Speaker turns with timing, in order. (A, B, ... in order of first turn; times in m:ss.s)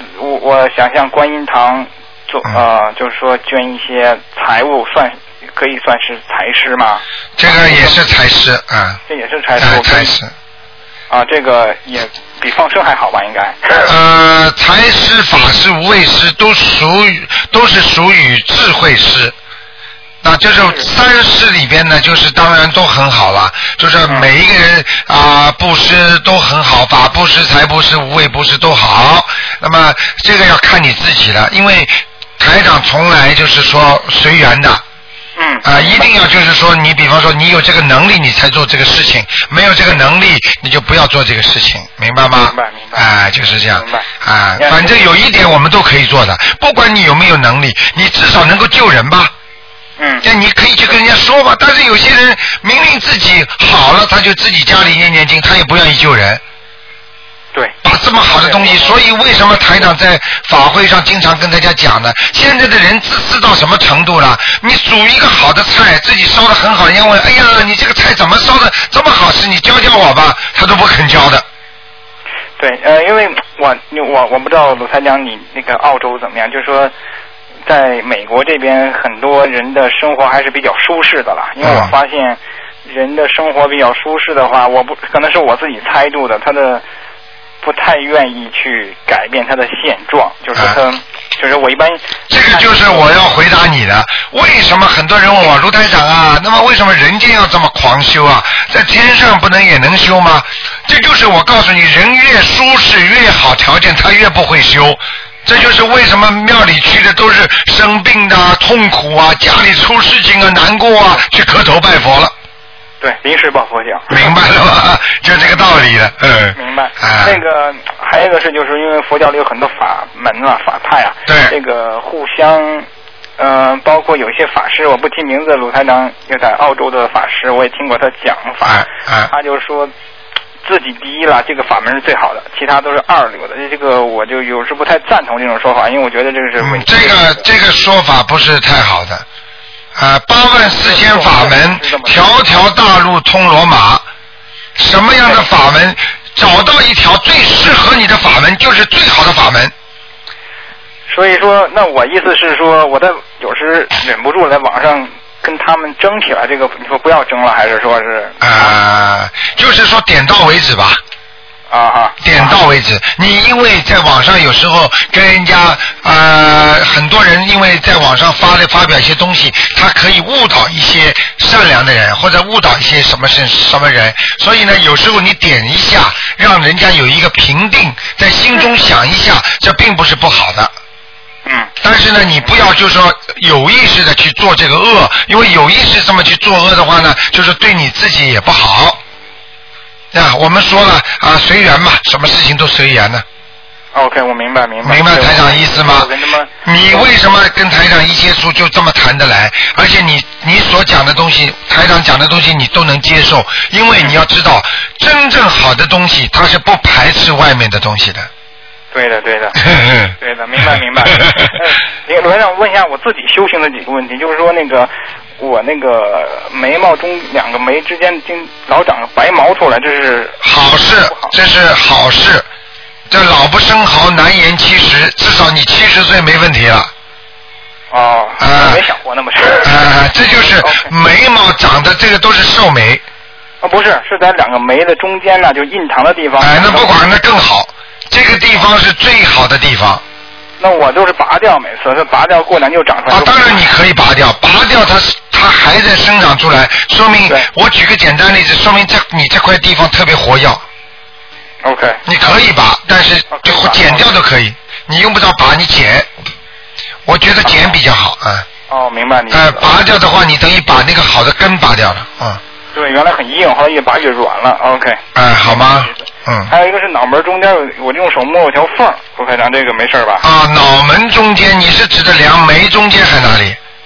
0:00.2-0:08.0 A
0:07.4-0:09.0 B
0:09.1-0:10.1 A
0:09.6-0:10.3 B
0:11.1-0:13.9 A
0:13.8-0:19.3 B
0:20.2-0:34.8 B
0:20.5-0:20.9 A
0:24.0-0:24.3 A
0:35.4-0:36.1 A
0:35.6-0:49.3 B
0:42.3-0:45.0 A
0:50.0-0:50.3 A
0:50.2-0:56.4 B
0:57.5-0:59.0 A
0:57.8-1:11.4 B
1:12.6-1:16.9 A
1:17.6-1:26.8 A
1:21.6-1:21.9 B
1:27.6-1:33.4 A
1:32.3-1:52.3 B
1:53.0-1:54.3 A
1:54.1-1:57.4 B
1:55.3-1:55.7 A
1:56.6-2:02.9 A
2:01.3-2:01.5 B
2:03.4-2:09.9 A
2:08.6-2:09.3 B
2:10.6-2:17.4 A
2:16.6-2:19.2 B
2:20.0-2:24.0 B
2:20.8-2:22.4 A
2:24.8-2:29.7 B
2:31.1-2:38.8 A
2:38.4-2:41.0 B
2:41.7-2:42.6 A
2:42.2-3:00.7 B
3:01.4-3:01.7 A
3:01.8-3:09.0 B
3:10.1-3:13.2 B
3:13.9-3:17.1 A
3:14.8-3:16.1 B
3:16.6-3:28.3 B
3:28.9-3:41.3 A
3:29.7-3:30.1 B
3:40.4-3:42.4 B
3:43.1-3:46.9 B
3:47.9-3:49.7 A
3:48.4-3:48.8 B
3:49.6-3:53.0 B
3:50.2-3:50.9 A
3:53.6-3:56.9 A
3:56.4-4:00.0 B
4:00.6-4:03.7 A
4:03.1-4:10.6 B
4:11.6-4:12.0 A
4:12.0-4:16.1 B
4:13.3-4:14.2 A
4:17.0-4:18.5 B
4:17.4-4:17.8 A
4:18.7-4:19.8 A
4:19.3-4:22.4 B
4:22.7-4:30.2 A
4:25.1-4:26.5 B
4:30.2-4:33.6 B